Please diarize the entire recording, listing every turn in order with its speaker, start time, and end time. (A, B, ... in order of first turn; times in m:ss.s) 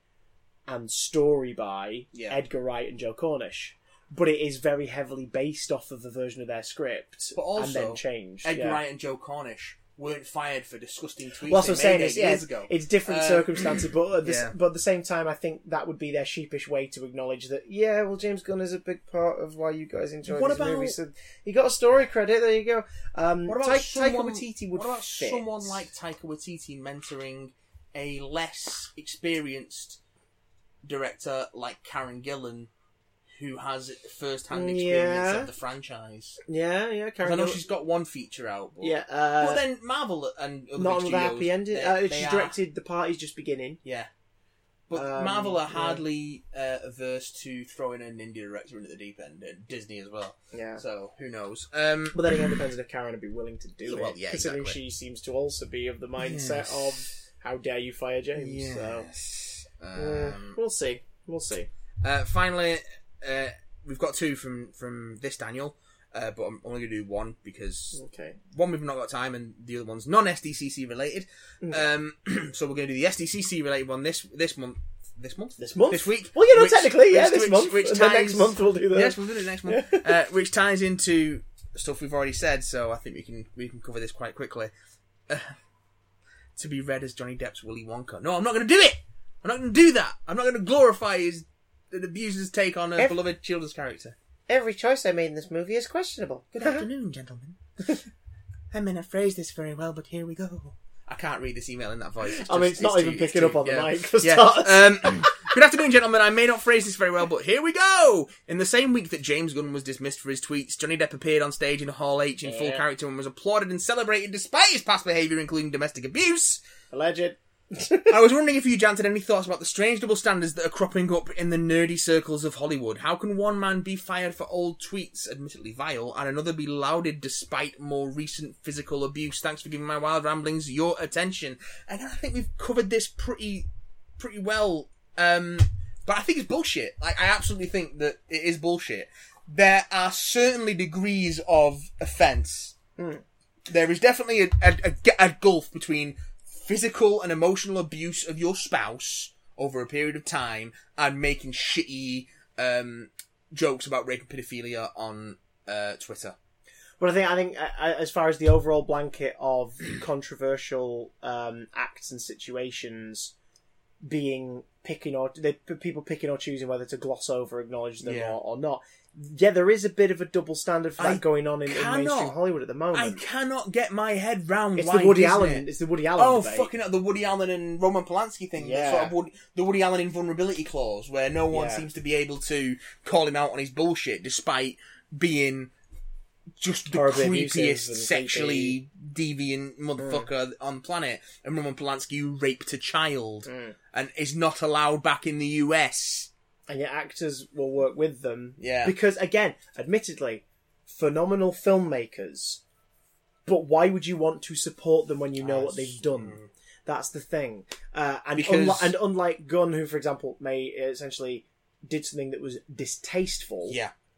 0:00.7-0:08.8 A
0:07.3-0:14.5 B
0:11.5-0:25.8 A
0:20.3-0:21.0 B
0:23.5-0:30.0 B
0:30.8-0:32.7 B
0:33.3-0:36.4 B
0:34.5-0:35.5 A
0:36.4-0:37.6 A
0:37.2-0:42.6 B
0:38.8-0:39.6 A
0:40.8-0:43.8 A
0:43.8-0:44.1 B
0:44.9-0:52.5 B
0:44.9-0:46.0 A
0:50.5-0:50.8 A
0:52.1-0:59.1 A
0:53.8-0:54.8 B
0:56.2-0:57.1 B
0:58.3-1:00.6 B
0:59.9-1:01.7 A
1:02.0-1:08.0 B
1:07.9-1:08.4 A
1:08.5-1:24.7 B
1:15.6-1:20.1 A
1:25.3-1:25.5 B
1:26.6-1:34.2 B
1:34.5-1:36.9 A
1:36.5-1:38.0 B
1:38.7-1:56.6 B
1:42.2-1:45.6 A
1:52.4-1:52.8 A
1:56.9-1:58.1 A
1:58.1-2:22.8 B
2:23.0-2:23.2 A
2:23.7-2:36.4 B
2:37.0-2:43.3 A
2:44.0-2:53.2 A
2:48.0-2:48.4 B
2:51.0-2:52.3 B
2:52.9-3:05.7 B
2:54.8-2:56.7 A
2:58.6-2:59.1 A
3:01.5-3:01.8 A
3:06.6-3:16.3 B
3:06.9-3:08.8 A
3:10.0-3:10.3 A
3:13.4-3:13.8 A
3:16.7-3:22.6 A
3:18.6-3:18.9 B
3:23.4-3:33.8 A
3:25.4-3:26.5 B
3:28.4-3:29.0 B
3:33.7-3:33.9 B